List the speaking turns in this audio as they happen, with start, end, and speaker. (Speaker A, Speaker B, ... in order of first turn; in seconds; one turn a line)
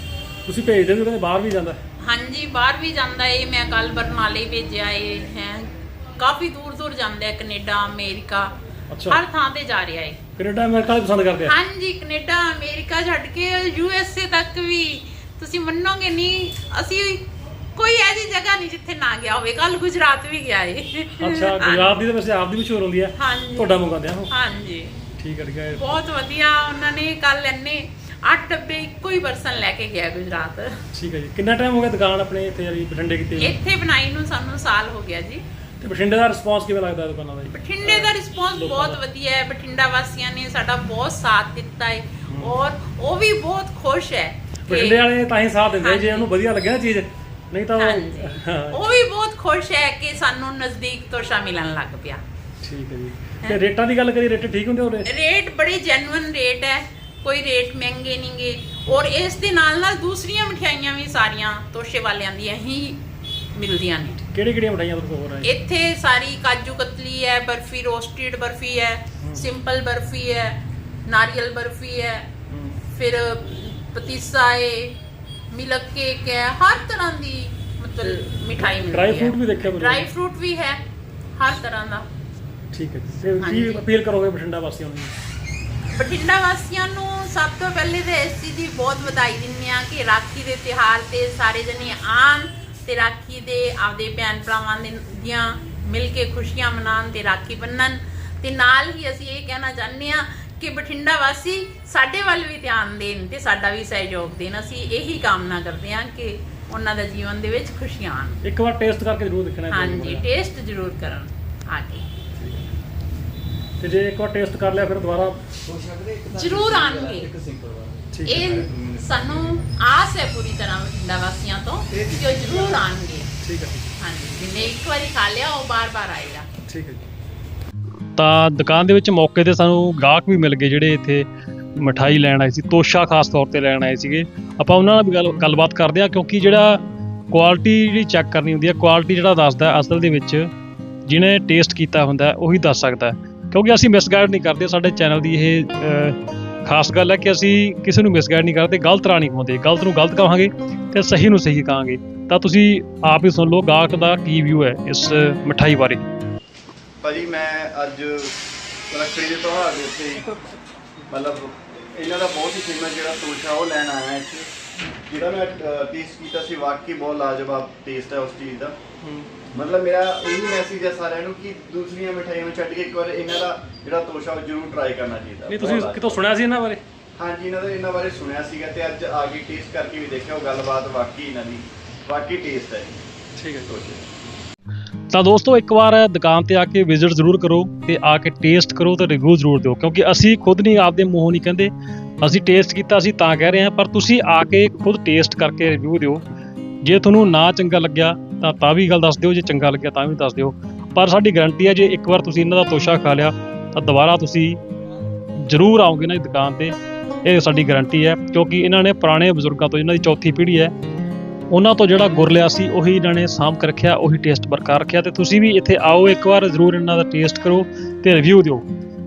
Speaker A: 0.5-1.8
Speaker B: 2.0-8.5
Speaker A: 8.9-9.2
Speaker B: 9.1-10.2
Speaker A: 10.3-11.5
Speaker B: 11.4-22.0
Speaker A: 21.1-24.3
Speaker B: 23.2-25.1
Speaker A: 25.2-25.9
Speaker B: 25.7-30.8
Speaker A: 30.9-33.6
Speaker B: 33.4-35.4
Speaker A: 35.8-39.0
Speaker B: 37.5-45.0
Speaker A: 44.7-48.8
Speaker B: 45.7-46.3
Speaker B: 47.8-52.2
Speaker A: 52.6-55.1
Speaker B: 55.0-63.0
Speaker B: 63.5-64.2
Speaker A: 64.2-65.5
Speaker B: 65.4-72.3
Speaker A: 69.2-69.5
Speaker A: 72.5-72.8
Speaker B: 72.9-75.0
Speaker B: 75.5-80.8
Speaker A: 78.0-80.1
Speaker B: 81.3-82.1
Speaker A: 82.7-85.1
Speaker B: 83.4-83.8
Speaker B: 85.9-108.4
Speaker A: 108.4-110.2
Speaker B: 109.7-112.0
Speaker A: 113.8-115.4
Speaker C: 115.6-119.6
Speaker B: 116.3-117.3
Speaker A: 118.1-118.4
Speaker B: 118.2-123.3
Speaker C: 121.9-122.8
Speaker A: 123.4-123.8
Speaker B: 124.0-126.5
Speaker A: 126.7-127.0
Speaker A: 128.2-140.5
Speaker A: 141.1-156.0
Speaker C: 157.0-158.4
Speaker C: 158.9-160.3
Speaker C: 161.1-164.5
Speaker C: 165.1-168.8
Speaker A: 169.0-169.3
Speaker C: 169.5-176.2
Speaker A: 175.5-176.8
Speaker C: 177.2-183.0
Speaker A: 183.4-183.8
Speaker C: 183.7-184.1
Speaker A: 185.1-191.7
Speaker A: 192.2-196.2
Speaker A: 196.8-204.6
Speaker A: 205.4-210.7
Speaker A: 211.5-218.6